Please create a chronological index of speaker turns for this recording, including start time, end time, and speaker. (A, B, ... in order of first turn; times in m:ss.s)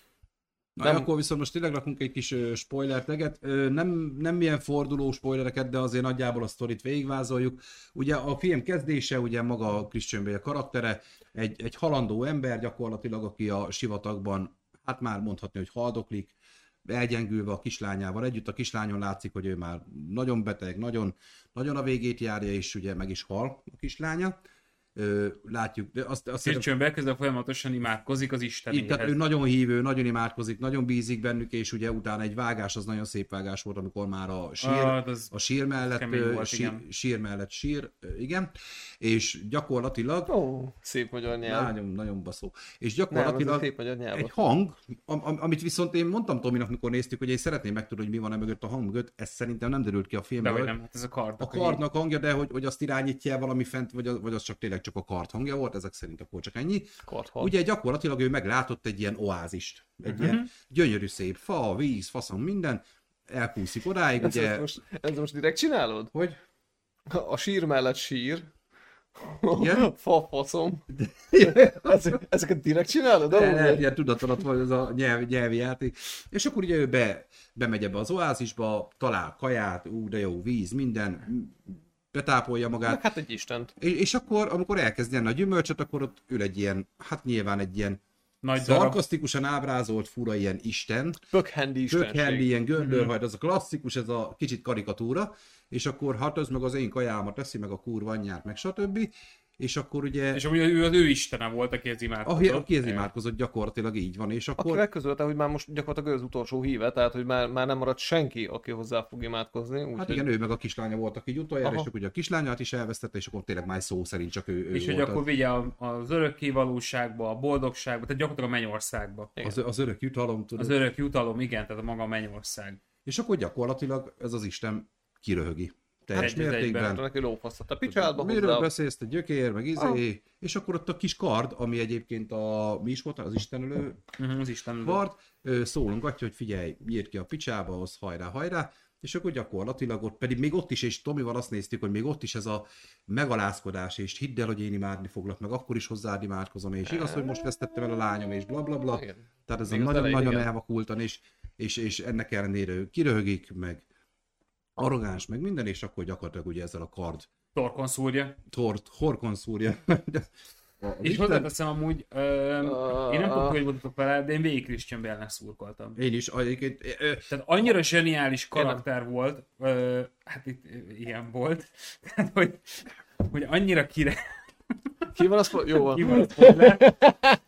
0:00.8-0:16.4 A
0:00.8-0:01.1 B
0:16.9-0:24.4 A
0:25.0-0:26.7 A
0:26.4-0:29.2 C
0:28.7-0:40.3 A
0:34.6-0:36.8 C
0:40.3-0:41.7 B
0:41.4-0:50.7 A
0:43.1-0:44.3 B
0:50.4-0:51.8 C
0:51.4-1:04.7 A
0:57.0-0:57.5 B
1:00.1-1:00.5 C
1:04.2-1:06.1 B
1:06.1-1:06.4 A
1:07.1-1:08.5 B
1:09.2-1:10.8 B
1:09.5-1:09.9 A
1:10.9-1:12.2 A
1:11.4-1:13.8 B
1:13.3-1:23.0 A
1:22.9-1:23.7 B
1:23.8-1:28.0 A
1:28.4-1:29.0 C
1:28.6-1:31.2 A
1:31.3-1:32.5 B
1:31.9-1:40.4 A
1:32.8-1:33.1 C
1:40.3-1:43.1 C
1:42.2-1:44.8 A
1:44.6-1:50.2 B
1:50.0-1:55.2 A
1:51.6-1:51.9 B
1:54.7-1:59.3 C
1:59.4-2:00.8 A
2:00.6-2:02.8 C
2:03.0-2:07.0 A
2:06.2-2:07.0 C
2:06.2-2:08.7 B
2:07.9-2:14.0 A
2:14.2-2:15.0 C
2:14.8-2:33.8 A
2:26.9-2:27.4 B
2:28.9-2:30.5 B
2:34.8-2:37.3 A
2:37.6-2:38.4 C
2:38.5-2:40.3 A
2:40.8-2:41.5 A
2:41.0-2:46.0 C
2:42.6-2:43.6 B
2:46.0-2:47.3 A
2:47.3-2:54.3 C
2:48.5-2:48.8 B
2:55.2-2:57.4 B
2:55.9-2:56.9 C